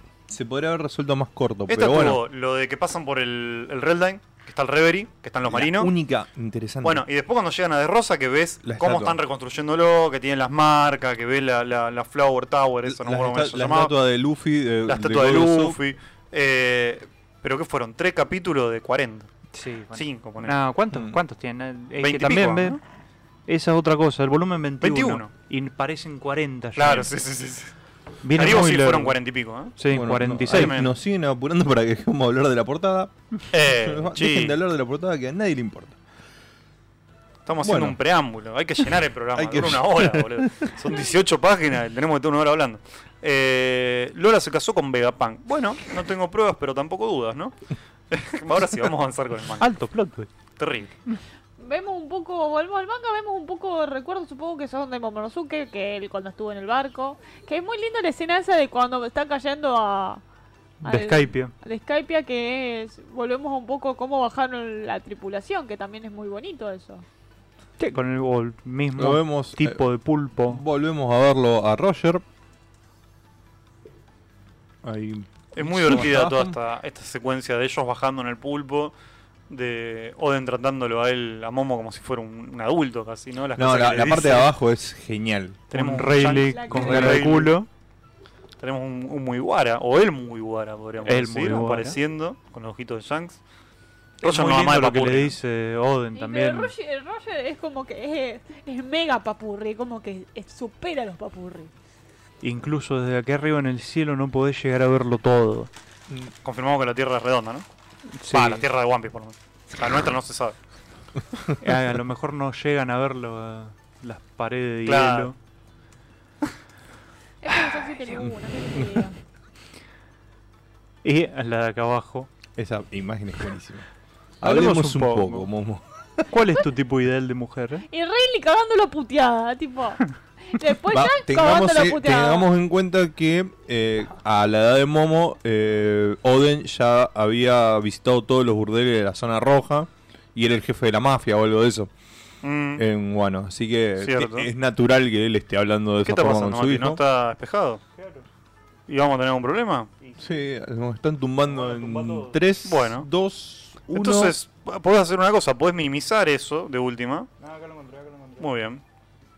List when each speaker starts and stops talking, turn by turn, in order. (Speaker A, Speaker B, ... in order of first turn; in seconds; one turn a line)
Speaker A: 0.3-2.2
Speaker B: 1.7-5.9
Speaker A: 5.5-7.0
Speaker B: 6.8-13.9
Speaker A: 8.6-9.2
Speaker A: 12.8-15.8
Speaker B: 14.9-19.3
Speaker C: 19.5-22.8
Speaker B: 19.9-20.6
Speaker A: 20.9-21.2
Speaker B: 22.0-22.8
Speaker C: 23.5-27.1
Speaker B: 24.8-25.3
Speaker B: 26.8-27.7
Speaker C: 28.2-29.1
Speaker B: 28.3-29.7
Speaker C: 29.8-30.8
Speaker A: 29.9-33.1
Speaker B: 30.5-30.9
Speaker B: 33.5-34.5
Speaker A: 33.7-36.0
Speaker B: 37.5-47.5
Speaker A: 37.6-38.0
Speaker A: 39.3-40.7
Speaker B: 48.1-49.7
Speaker C: 49.6-50.3
Speaker B: 50.6-50.9
Speaker D: 51.6-60.2
Speaker C: 60.8-61.5
Speaker D: 60.8-67.0
Speaker C: 67.8-70.6
Speaker A: 69.0-69.8
Speaker A: 70.5-72.2
Speaker A: 74.8-76.6
Speaker B: 75.5-78.9
Speaker B: 79.5-84.5
Speaker A: 83.5-85.6
Speaker B: 85.7-87.5
Speaker C: 85.7-87.7
Speaker D: 86.4-86.9
Speaker A: 86.7-87.3
Speaker B: 88.6-93.4
Speaker C: 91.0-92.0
Speaker C: 94.2-96.7
Speaker B: 94.2-95.3
Speaker D: 96.1-101.7
Speaker C: 102.4-105.7
Speaker B: 106.4-107.6
Speaker C: 108.2-108.6
Speaker B: 108.3-110.6
Speaker C: 111.6-115.3
Speaker B: 114.8-115.3
Speaker D: 117.4-119.2
Speaker C: 121.0-122.3
Speaker A: 122.6-123.8
Speaker A: 124.4-126.3
Speaker C: 124.4-125.5
Speaker C: 126.3-127.8
Speaker D: 127.9-132.5
Speaker A: 130.9-141.9
Speaker B: 142.4-142.8
Speaker A: 142.8-147.0
Speaker B: 144.0-144.5
Speaker B: 146.0-147.8
Speaker C: 147.9-148.2
Speaker B: 148.9-149.9
Speaker A: 150.2-154.3
Speaker C: 151.4-152.4
Speaker B: 152.6-153.1
Speaker B: 153.9-157.3
Speaker C: 157.4-158.5
Speaker B: 158.4-158.8